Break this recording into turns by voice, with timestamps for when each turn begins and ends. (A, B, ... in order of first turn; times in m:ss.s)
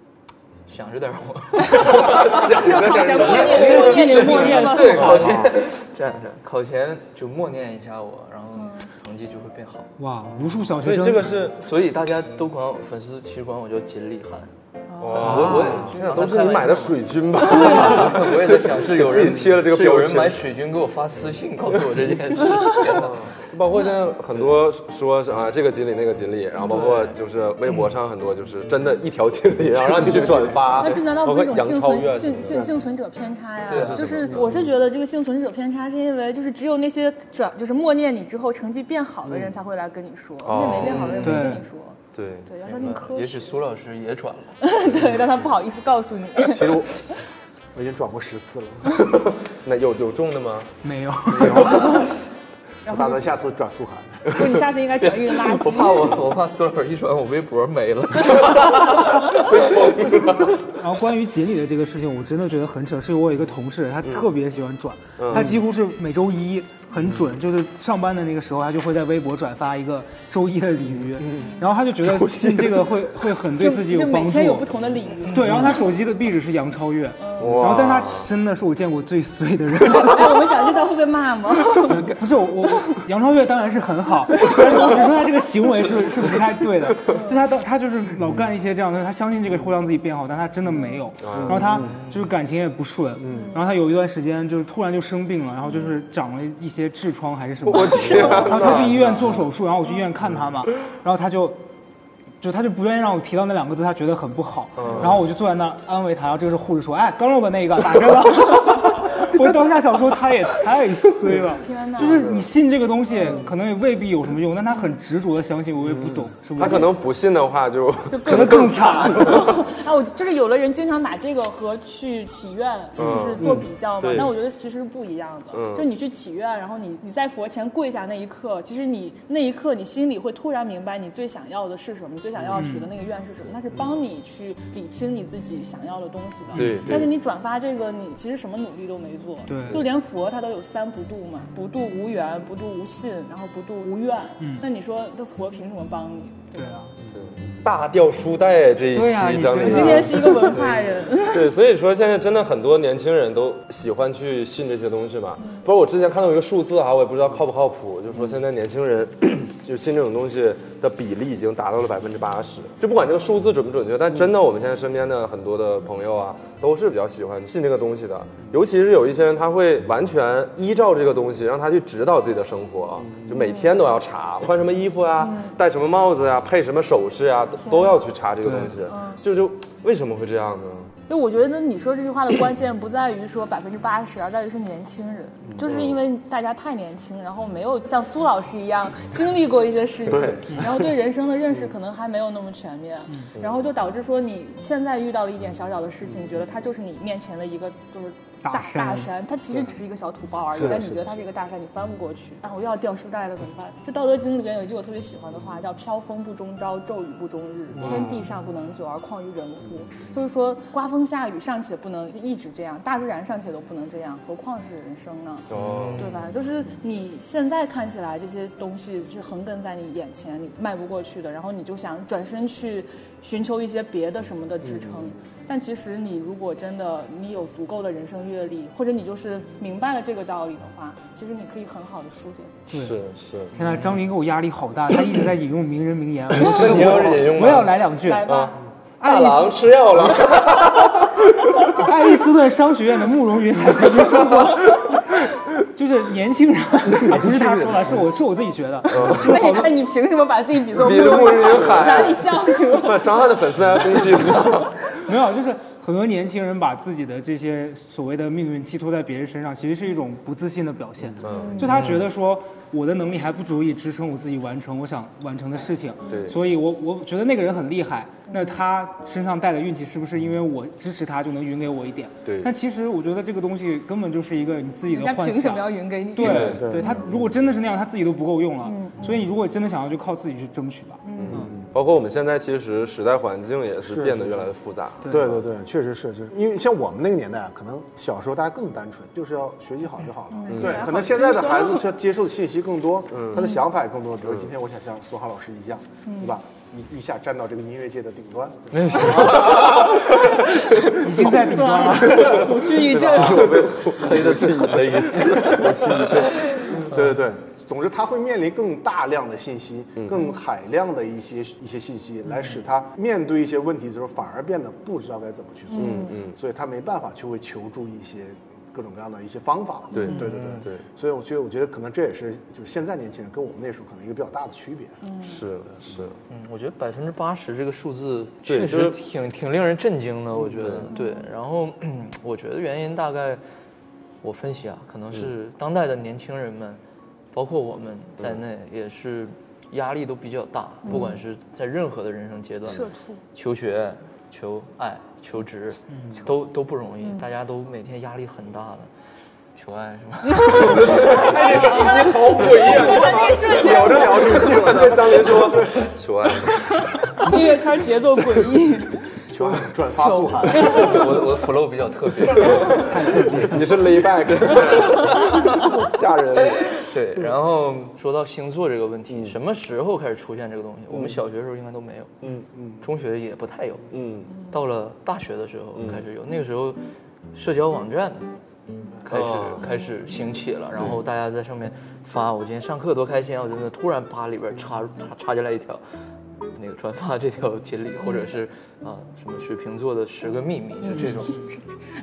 0:00.7-0:09.9 A
0:01.7-0:05.4 B
0:01.7-0:05.6 C
0:03.5-0:05.4 D
0:08.6-0:08.9 B
0:10.0-0:11.3 D
0:10.8-0:11.6 C
0:11.6-0:14.5 A
0:14.9-0:15.8 B
0:15.0-0:20.4 C
0:15.1-0:23.2 A
0:15.2-0:15.9 D
0:17.5-0:18.0 B
0:22.8-0:32.8 C
0:26.6-0:27.2 A
0:29.9-0:30.7 E
0:30.8-0:43.6 B
0:33.6-0:34.6 C
0:33.7-0:34.0 A
0:40.4-0:41.5 C
0:40.7-0:41.6 A
0:41.2-0:41.6 D
0:42.1-0:42.5 C
0:42.6-0:44.6 A
0:44.6-0:46.8 B
0:46.5-0:46.9 E
0:47.7-0:49.0 E
0:49.5-0:50.7 C
0:50.8-0:51.9 D
0:51.3-0:52.1 E
0:51.6-0:52.1 B
0:52.8-0:53.4 B
0:52.9-0:54.3 E
0:54.3-0:56.2 B
0:55.0-0:59.0 A
0:58.6-1:00.6 C
1:00.6-1:14.7 D
1:05.2-1:05.6 C
1:11.4-1:11.7 B
1:13.6-1:15.8 B
1:15.3-1:20.5 D
1:17.2-1:17.8 B
1:17.4-1:18.3 C
1:19.9-1:22.1 B
1:21.8-1:41.6 D
1:24.4-1:24.9 B
1:27.1-1:27.5 B
1:30.7-1:31.1 B
1:31.2-1:31.8 C
1:31.6-1:31.9 E
1:31.8-1:32.2 A
1:33.2-1:33.5 E
1:33.3-1:33.7 B
1:37.6-1:39.4 C
1:37.9-1:38.8 B
1:42.4-1:56.9 D
1:44.8-1:45.2 C
1:51.5-1:52.4 B
1:53.2-1:53.5 B
1:56.6-1:59.6 C
1:58.1-2:26.7 B
1:58.3-1:59.4 D
2:03.0-2:04.4 C
2:03.1-2:03.6 D
2:05.5-2:05.9 C
2:12.5-2:12.9 D
2:16.5-2:17.0 D
2:16.6-2:17.1 C
2:19.5-2:19.8 D
2:24.4-2:24.6 D
2:26.5-2:26.9 D
2:27.1-3:00.9 C
2:28.9-2:30.6 D
2:29.6-2:31.5 B
2:53.3-2:53.7 B
2:55.2-2:55.6 B
2:57.6-2:58.0 B
2:58.4-2:58.8 D
2:58.8-2:59.2 B
3:01.1-3:52.6 B
3:05.6-3:06.0 C
3:10.1-3:10.4 E
3:13.4-3:13.7 C
3:18.4-3:19.1 D
3:20.6-3:20.9 C
3:27.8-3:28.2 C
3:27.8-3:28.1 D
3:35.5-3:36.2 C
3:35.6-3:36.3 A
3:52.7-3:53.0 D
3:52.7-3:53.6 C
3:53.5-3:58.3 D
3:56.3-4:01.5 C
3:58.0-3:58.6 B
3:59.0-3:59.4 D
4:01.6-4:09.7 D
4:07.0-4:08.0 C
4:08.9-4:09.3 C
4:09.0-4:13.4 B
4:10.7-4:14.8 C
4:15.0-4:41.5 D
4:21.2-4:22.0 C
4:21.2-4:21.9 B
4:26.1-4:26.3 B
4:26.1-4:26.4 C
4:28.3-4:28.6 B
4:32.2-4:32.5 C
4:34.9-4:37.0 B
4:36.2-4:36.6 C
4:36.2-4:37.3 E
4:38.6-4:39.2 B
4:41.0-4:41.5 B
4:41.2-4:45.4 C
4:41.3-4:41.7 E
4:43.8-4:44.4 E
4:45.0-4:45.4 D
4:45.1-4:59.8 E
4:50.3-4:51.9 B
4:50.5-4:50.8 C
4:53.1-4:53.5 C
4:54.2-4:54.5 C
4:56.1-4:56.4 B
4:58.7-4:59.7 A
4:59.0-5:03.8 B
5:00.9-5:02.3 D
5:02.2-5:06.6 C
5:03.2-5:05.7 A
5:05.2-5:25.0 E
5:10.0-5:10.2 C
5:15.7-5:16.2 B
5:15.7-5:16.4 C
5:19.9-5:20.8 C
5:19.9-5:20.2 B
5:20.3-5:20.7 A
5:25.0-5:25.4 B
5:25.2-5:26.2 C
5:26.3-5:33.4 A
5:28.4-5:29.0 C
5:30.5-5:30.9 C
5:30.9-5:31.3 B
5:34.2-5:36.8 A
5:37.3-5:48.9 A
5:40.8-5:41.2 B
5:42.6-5:43.2 B
5:45.9-5:46.2 D
5:49.6-5:51.3 A
5:50.4-5:54.8 B
5:50.4-5:56.8 C
5:53.5-5:55.9 E
5:57.0-5:59.0 B
5:59.3-6:01.2 E
5:59.9-6:01.1 B
6:00.7-6:03.5 A
6:02.7-6:03.7 D
6:03.2-6:06.9 C
6:04.7-6:05.6 A
6:06.7-6:12.1 A
6:10.9-6:11.2 C
6:12.2-6:12.5 C
6:12.8-6:13.9 A
6:13.9-6:14.3 C
6:14.3-6:14.6 B
6:14.5-6:16.8 A
6:15.8-6:16.0 C
6:17.3-6:18.3 A
6:19.0-6:25.8 A
6:19.1-6:19.6 C
6:19.6-6:19.9 B
6:26.5-6:31.4 A
6:30.8-6:31.6 B